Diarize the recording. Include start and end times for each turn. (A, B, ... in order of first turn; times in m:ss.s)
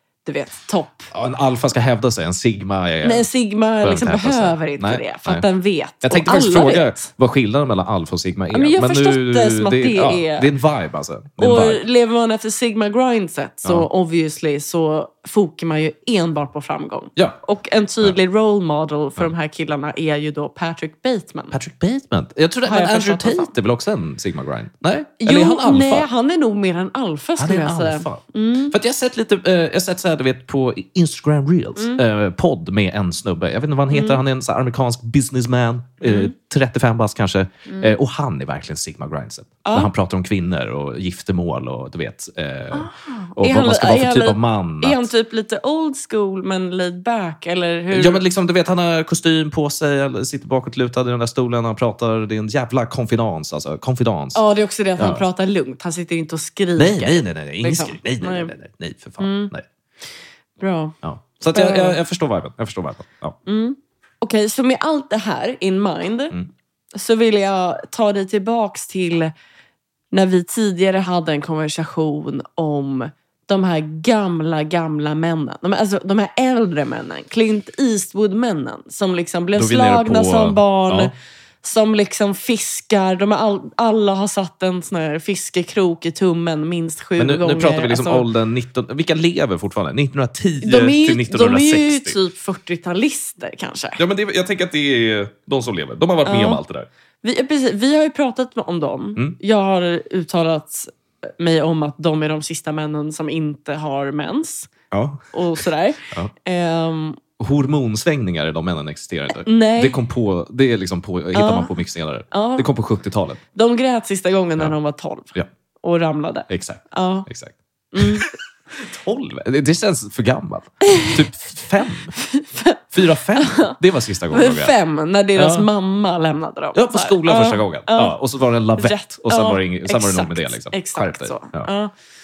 0:00.2-0:01.1 A
0:01.1-0:03.2 B
0:03.0-0:07.0 A
0:03.8-0:05.4 B
0:06.0-0:11.8 B
0:08.5-0:10.5 A
0:11.4-0:21.5 A
0:21.5-0:26.0 B
0:22.6-0:23.5 A
0:25.2-0:28.8 A
0:27.4-0:45.1 B
0:33.9-0:34.2 A
0:36.0-0:36.3 A
0:39.6-0:39.9 A
0:42.7-0:48.2 A
0:47.9-0:54.4 B
0:54.3-0:58.5 A
0:55.0-0:55.2 B
0:56.8-0:59.6 B
0:59.2-0:59.5 A
1:00.6-1:01.0 A
1:01.0-1:03.4 B
1:01.5-1:02.0 A
1:03.4-1:06.3 A
1:06.9-1:09.3 A
1:10.1-1:21.1 A
1:19.6-1:21.1 B
1:21.6-1:28.2 A
1:27.2-1:32.2 B
1:30.6-1:34.0 A
1:34.0-1:36.9 B
1:36.2-1:36.6 A
1:37.2-1:44.7 A
1:44.9-1:46.3 B
1:45.3-1:47.2 A
1:47.4-1:53.4 B
1:49.4-1:50.0 A
1:51.3-1:51.7 A
1:52.3-1:52.7 A
1:53.5-1:57.3 A
1:56.5-2:02.1 B
1:57.9-1:58.2 A
2:00.9-2:01.2 A
2:02.1-2:03.8 A
2:02.9-2:04.7 B
2:04.3-2:08.2 A
2:05.4-2:05.7 B
2:06.7-2:11.7 B
2:08.8-2:11.9 A